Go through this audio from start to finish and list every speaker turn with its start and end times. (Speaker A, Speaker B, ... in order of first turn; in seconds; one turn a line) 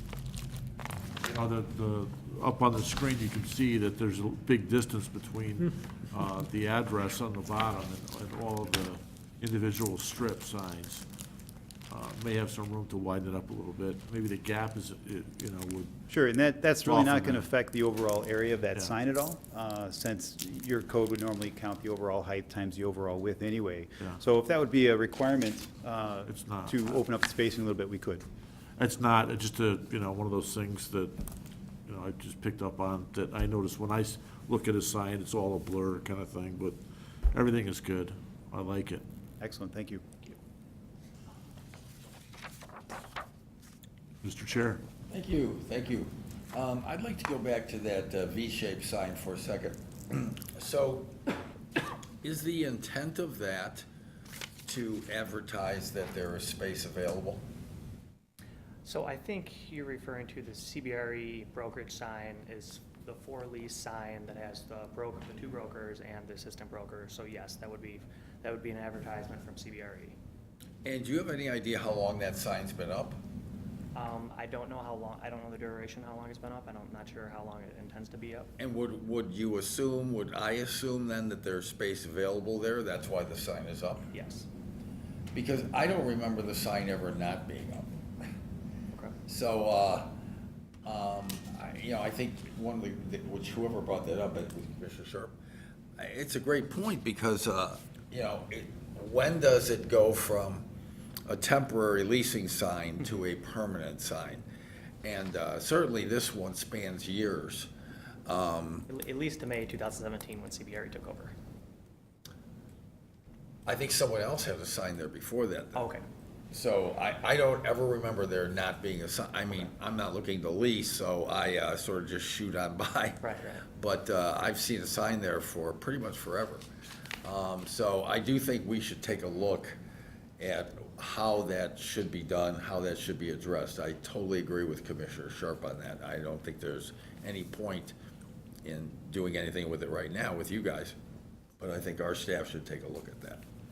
Speaker A: 1.2-11.1
Speaker A: 11.9-15.9
Speaker B: 16.1-28.2
Speaker A: 16.8-17.5
Speaker A: 26.3-27.0
Speaker A: 28.8-31.2
Speaker A: 31.9-36.8
Speaker A: 37.3-39.0
Speaker B: 39.4-40.3
Speaker A: 44.2-44.8
Speaker C: 45.1-51.1
Speaker C: 52.2-53.9
Speaker C: 54.6-57.4
Speaker D: 58.8-70.2
Speaker C: 70.8-73.2
Speaker D: 73.9-78.5
Speaker C: 78.6-84.1
Speaker D: 84.1-84.5
Speaker C: 85.3-88.0
Speaker C: 89.3-90.1
Speaker C: 90.8-95.3
Speaker C: 96.0-100.7
Speaker C: 101.3-104.4
Speaker C: 105.0-107.7
Speaker C: 108.2-108.8
Speaker D: 108.9-111.3
Speaker C: 113.7-115.8
Speaker D: 115.7-116.0
Speaker C: 116.5-126.7
Speaker D: 123.2-123.6
Speaker C: 127.2-129.8
Speaker C: 130.4-137.9
Speaker C: 138.6-140.9
Speaker C: 141.6-143.4